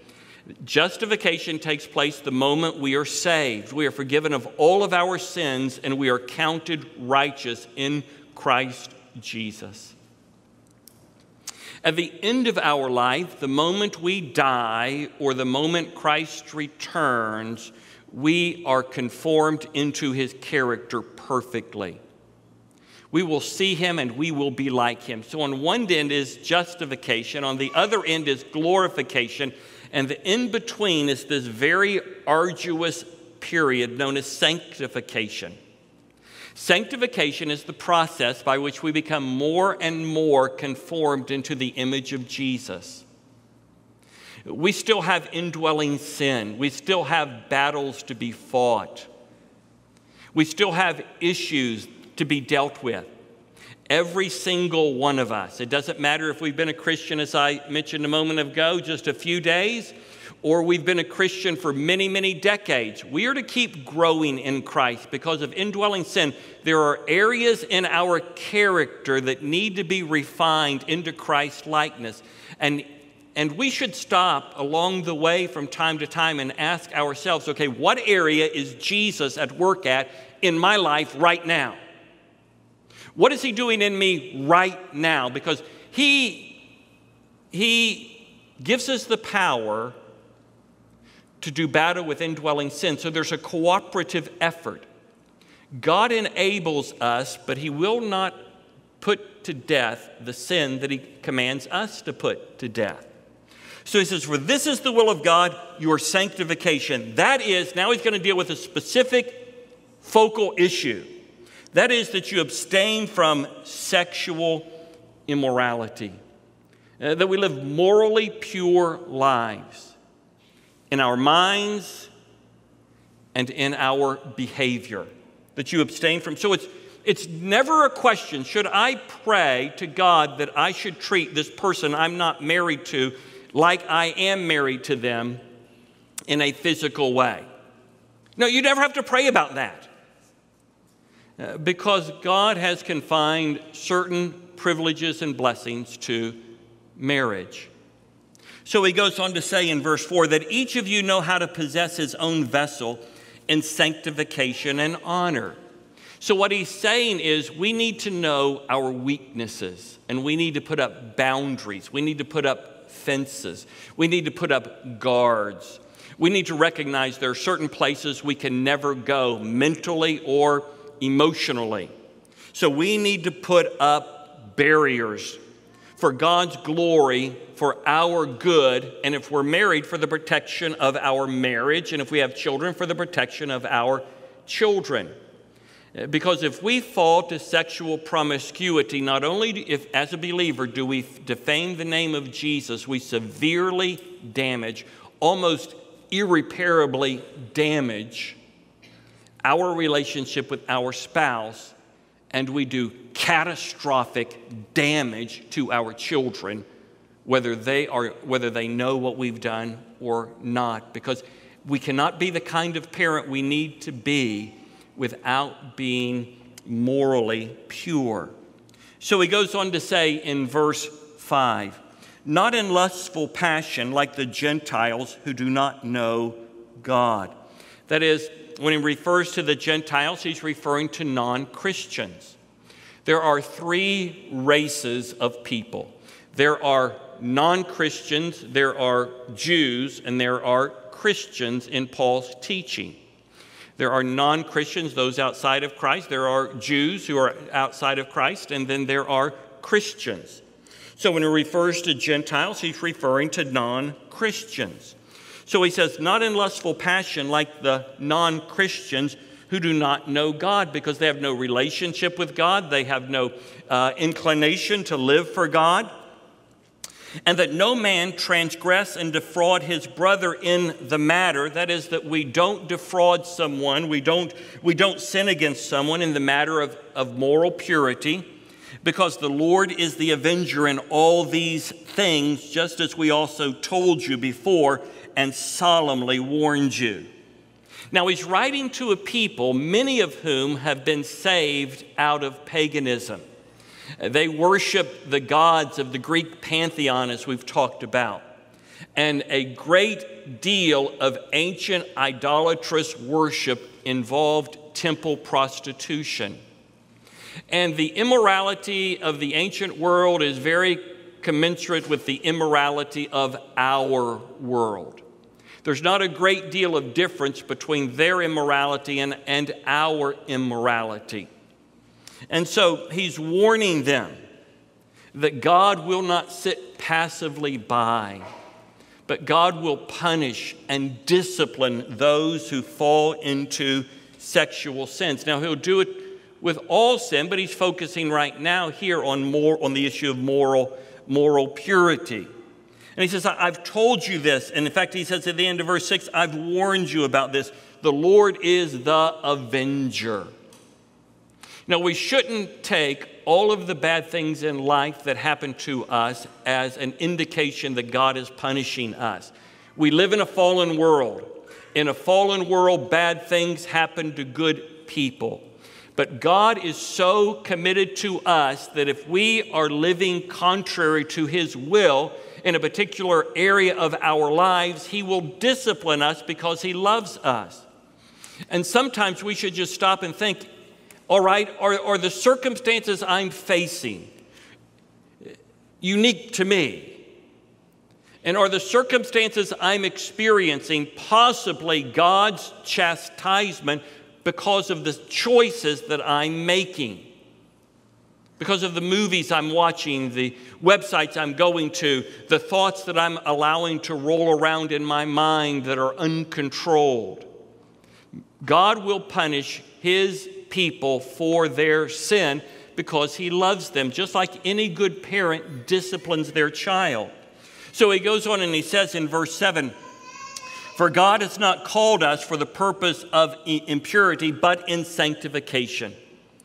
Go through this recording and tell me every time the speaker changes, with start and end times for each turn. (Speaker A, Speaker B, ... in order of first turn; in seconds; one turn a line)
Speaker A: 0.6-10.0
Speaker A: 11.8-22.0
Speaker A: 23.1-35.6
Speaker A: 36.5-43.0
Speaker A: 44.5-49.1
Speaker A: 50.3-53.1
Speaker A: 53.9-81.8
Speaker A: 83.2-86.6
Speaker A: 87.5-90.0
Speaker A: 91.4-94.9
Speaker A: 95.8-98.4
Speaker A: 99.0-103.1
Speaker A: 103.8-111.1
Speaker A: 111.7-114.7
Speaker A: 115.3-116.2
Speaker A: 117.0-120.0
Speaker A: 120.9-122.1
Speaker A: 123.3-135.4
Speaker A: 136.3-137.5
Speaker A: 138.4-139.9
Speaker A: 141.4-146.4
Speaker A: 147.0-147.7
Speaker A: 148.7-155.6
Speaker A: 156.2-171.9
Speaker A: 172.5-175.4
Speaker A: 176.0-185.1
Speaker A: 185.9-198.4
Speaker A: 199.4-201.8
Speaker A: 202.3-206.7
Speaker A: 207.2-218.3
Speaker A: 219.0-227.4
Speaker A: 227.9-232.4
Speaker A: 233.1-243.0
Speaker A: 243.8-250.4
Speaker A: 251.0-265.9
Speaker A: 267.3-278.3
Speaker A: 278.8-287.1
Speaker A: 287.9-293.2
Speaker A: 294.0-298.2
Speaker A: 298.9-306.4
Speaker A: 307.5-315.0
Speaker A: 315.6-321.3
Speaker A: 322.3-324.2
Speaker A: 325.1-328.2
Speaker A: 329.1-342.3
Speaker A: 343.0-350.3
Speaker A: 351.7-365.4
Speaker A: 366.0-377.7
Speaker A: 378.5-380.5
Speaker A: 381.1-384.1
Speaker A: 385.8-387.0
Speaker A: 388.2-397.1
Speaker A: 398.4-407.3
Speaker A: 408.4-417.1
Speaker A: 417.7-419.7
Speaker A: 420.8-425.9